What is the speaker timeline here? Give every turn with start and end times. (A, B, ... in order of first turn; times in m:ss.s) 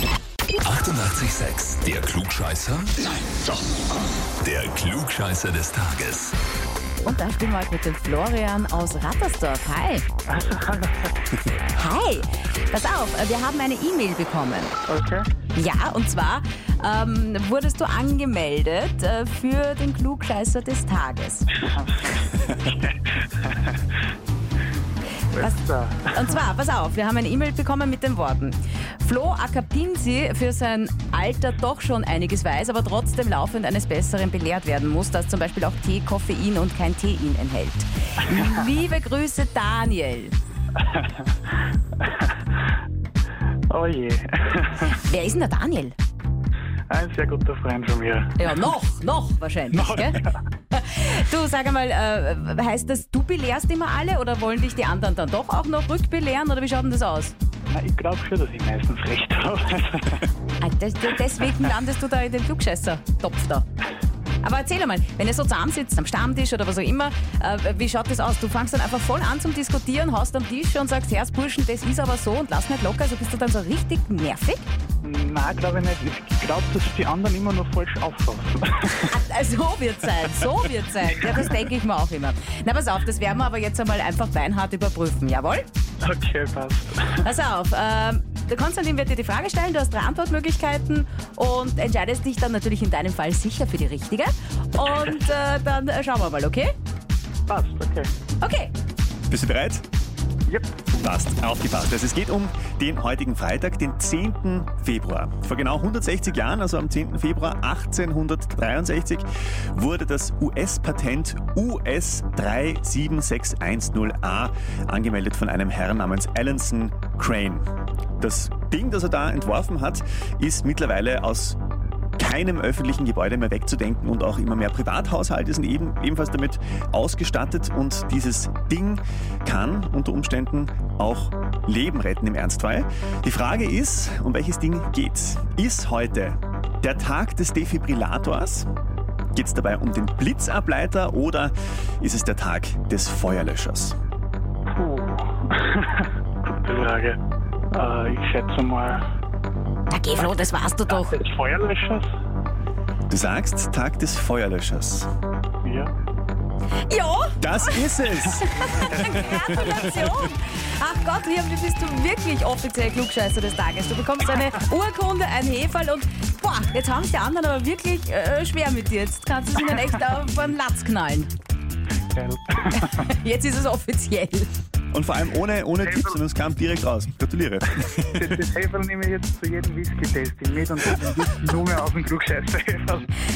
0:00.6-0:03.1 A
0:04.4-0:06.3 A
0:07.0-0:10.1 B
0:10.3-0:11.1 C
0:11.7-0:14.7 B
0:14.9-0:15.3 C
0:15.5-0:21.5 B
0:21.6-0:23.8 C
0:25.3-0:26.3 C
0:26.1-0:40.3 B
0:40.8-0:41.3 C
0:42.0-0:42.4 C
0:43.7-0:44.9 C
0:44.8-0:46.0 B
0:46.9-0:48.5 C
0:48.4-0:57.3 B
0:49.7-0:50.4 C
0:57.7-1:00.3 C
1:00.6-1:03.6 B
1:04.4-1:14.6 B
1:15.0-1:19.1 C
1:19.1-1:25.6 B
1:21.2-1:21.4 C
1:26.0-1:27.2 C
1:27.1-1:36.7 B
1:37.5-1:38.1 C
1:38.4-1:38.7 B
1:39.3-1:39.8 D
1:41.0-1:57.7 D
1:58.2-2:01.6 D
2:02.2-2:18.7 D
2:19.3-2:24.0 D
2:24.7-2:27.2 C
2:27.7-2:29.0 C
2:29.9-2:31.2 B
2:30.9-2:32.1 C
2:33.1-2:35.1 D
2:35.6-2:35.9 C
2:36.9-2:51.3 B
2:37.4-2:39.8 D
2:38.9-2:39.9 C
2:52.1-2:53.0 C
2:52.7-2:54.5 B
2:54.9-2:58.4 D
2:55.8-2:56.2 C
2:58.0-3:03.1 C